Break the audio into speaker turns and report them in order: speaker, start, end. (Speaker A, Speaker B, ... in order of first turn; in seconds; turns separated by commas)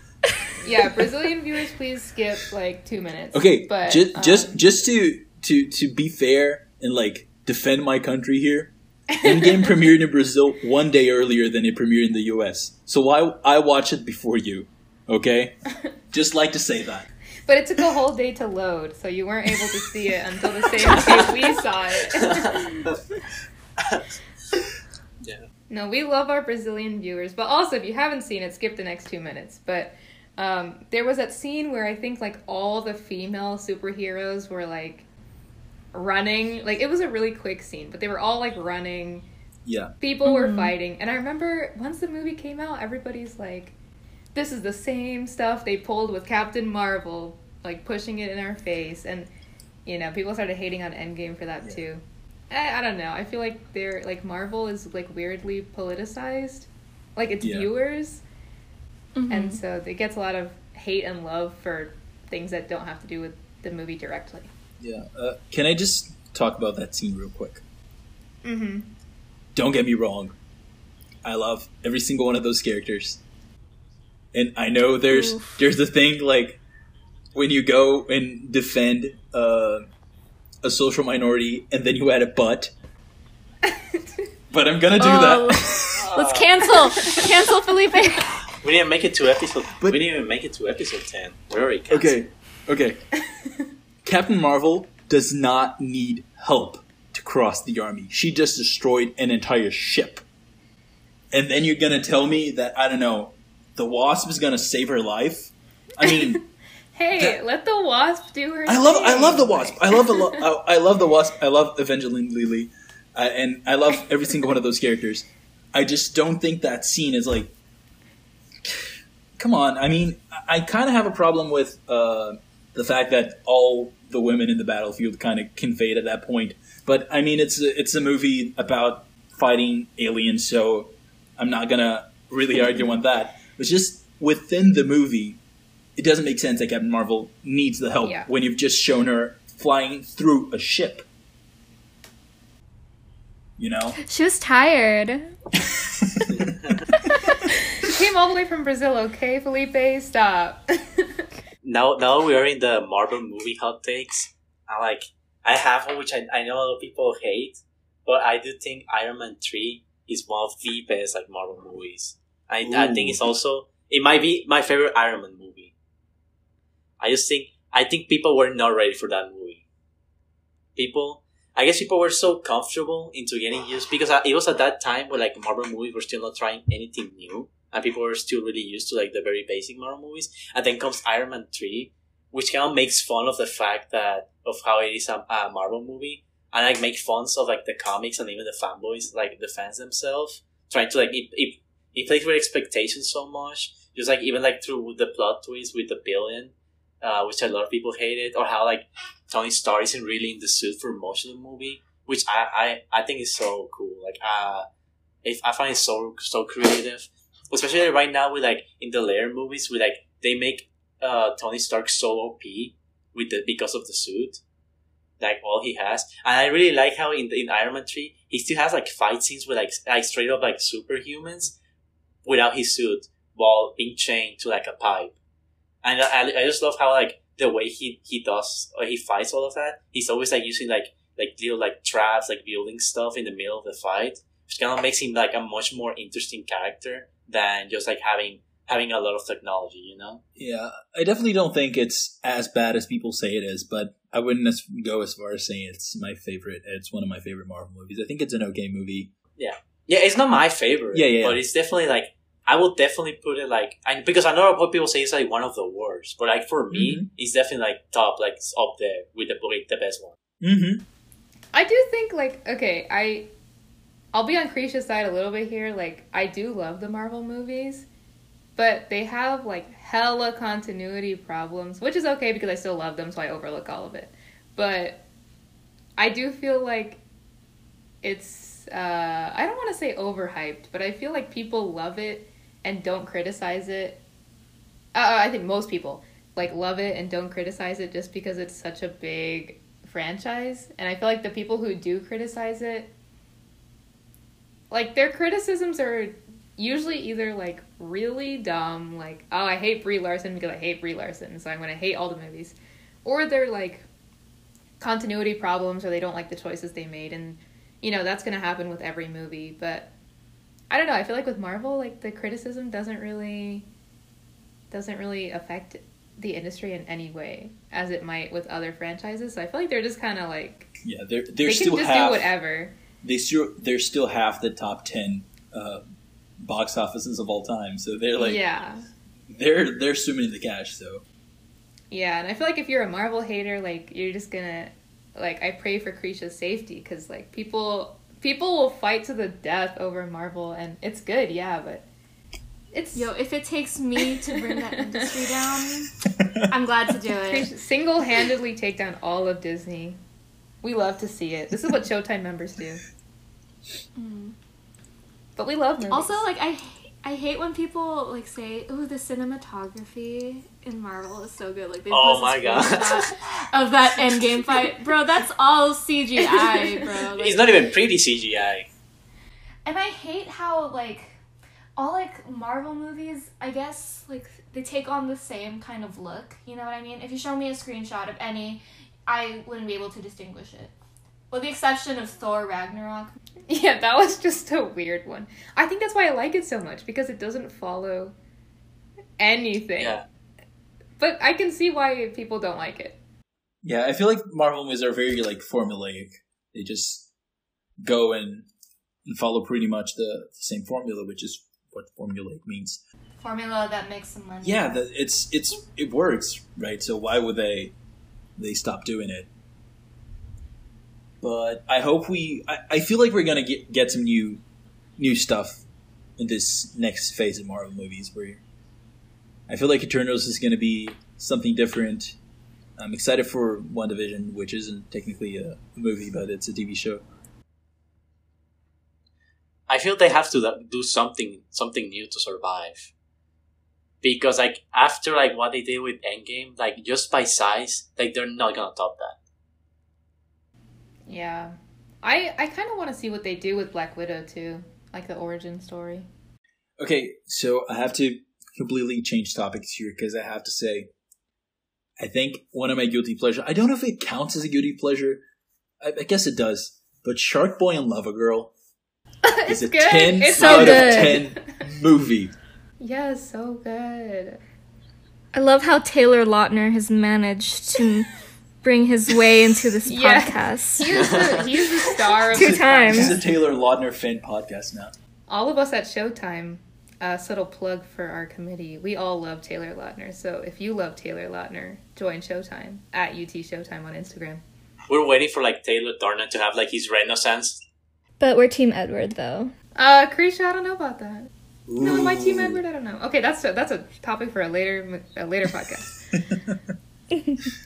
Speaker A: 0.6-4.6, Speaker B: 3.3-15.6, Speaker A: 9.1-9.7, Speaker B: 16.1-17.1, Speaker A: 17.5-22.8, Speaker C: 20.9-21.3, Speaker C: 22.1-23.0, Speaker C: 23.8-24.6, Speaker A: 25.7-35.1, Speaker A: 35.9-39.3, Speaker B: 39.6-39.9, Speaker A: 40.0-43.8, Speaker D: 40.2-40.7, Speaker A: 44.3-49.3, Speaker A: 49.8-58.2, Speaker B: 57.4-57.7, Speaker D: 59.1-59.6, Speaker A: 59.3-64.5, Speaker B: 64.8-67.6, Speaker A: 68.4-68.9, Speaker B: 69.5-70.3, Speaker B: 71.2-73.2, Speaker B: 74.3-76.6, Speaker D: 75.1-75.6, Speaker B: 77.3-79.9, Speaker B: 80.6-82.7, Speaker A: 83.6-84.1, Speaker B: 84.5-86.1, Speaker D: 85.0-88.4, Speaker C: 86.0-86.7, Speaker C: 88.6-92.2, Speaker B: 91.9-93.0, Speaker A: 93.4-93.6, Speaker B: 94.0-100.2, Speaker B: 101.3-106.4, Speaker A: 106.0-106.4, Speaker A: 106.9-110.4, Speaker B: 107.1-107.4, Speaker B: 108.7-117.5, Speaker B: 119.4-135.4, Speaker B: 135.9-141.1, Speaker A: 138.0-138.3, Speaker B: 143.6-144.0, Speaker D: 144.0-145.3, Speaker B: 145.6-146.8, Speaker D: 147.1-147.5, Speaker A: 147.8-151.2, Speaker C: 151.6-165.7, Speaker B: 162.6-163.2, Speaker C: 167.0-169.6, Speaker C: 170.8-204.7, Speaker C: 205.2-214.4, Speaker C: 215.2-221.5, Speaker C: 222.2-225.2, Speaker C: 225.8-240.2, Speaker B: 240.4-249.1, Speaker C: 249.4-260.1, Speaker B: 250.9-251.4, Speaker B: 256.7-257.1, Speaker B: 260.4-260.8, Speaker A: 261.5-263.3, Speaker A: 264.1-267.9, Speaker A: 268.6-275.0, Speaker A: 276.0-277.0, Speaker A: 278.0-284.0, Speaker A: 284.9-292.9, Speaker A: 294.7-303.9, Speaker A: 304.8-309.9, Speaker A: 310.7-313.7, Speaker A: 314.7-320.7, Speaker B: 320.8-322.3, Speaker A: 321.4-322.8, Speaker B: 323.0-325.8, Speaker B: 326.4-328.4, Speaker A: 328.2-328.9, Speaker B: 329.3-331.0, Speaker A: 331.9-341.9, Speaker A: 342.7-343.1, Speaker D: 342.9-345.9, Speaker A: 344.3-345.1, Speaker B: 346.2-346.5, Speaker D: 346.5-347.5, Speaker A: 347.2-350.0, Speaker A: 350.6-352.8, Speaker D: 353.9-354.3, Speaker A: 355.4-356.2, Speaker D: 355.9-367.4, Speaker C: 361.9-363.1, Speaker A: 366.2-366.9, Speaker C: 367.1-368.7, Speaker D: 369.6-371.2, Speaker D: 371.8-380.7, Speaker D: 381.3-383.2, Speaker A: 383.5-388.1, Speaker A: 389.2-390.0, Speaker C: 389.8-390.1, Speaker A: 391.0-393.0, Speaker B: 393.6-397.1, Speaker B: 397.8-398.5, Speaker B: 399.1-402.8, Speaker D: 403.2-404.8, Speaker B: 404.4-407.8, Speaker B: 408.4-409.3, Speaker B: 411.2-414.4, Speaker B: 415.0-415.6, Speaker B: 416.2-418.4, Speaker B: 419.5-422.1, Speaker B: 422.8-427.0, Speaker C: 429.7-432.9, Speaker C: 434.0-439.1, Speaker A: 441.1-446.1, Speaker B: 446.8-450.9, Speaker B: 452.0-455.2, Speaker B: 455.8-458.5, Speaker A: 459.2-461.5, Speaker B: 459.5-462.3, Speaker D: 460.4-461.2, Speaker A: 462.8-464.4, Speaker D: 465.3-468.1, Speaker D: 468.6-470.9, Speaker A: 469.9-473.3, Speaker C: 470.9-471.4, Speaker D: 472.3-473.1, Speaker B: 472.3-474.9, Speaker A: 475.3-484.4, Speaker C: 484.9-487.6, Speaker D: 488.2-489.5, Speaker A: 489.7-496.0, Speaker B: 491.7-492.6, Speaker B: 496.3-496.6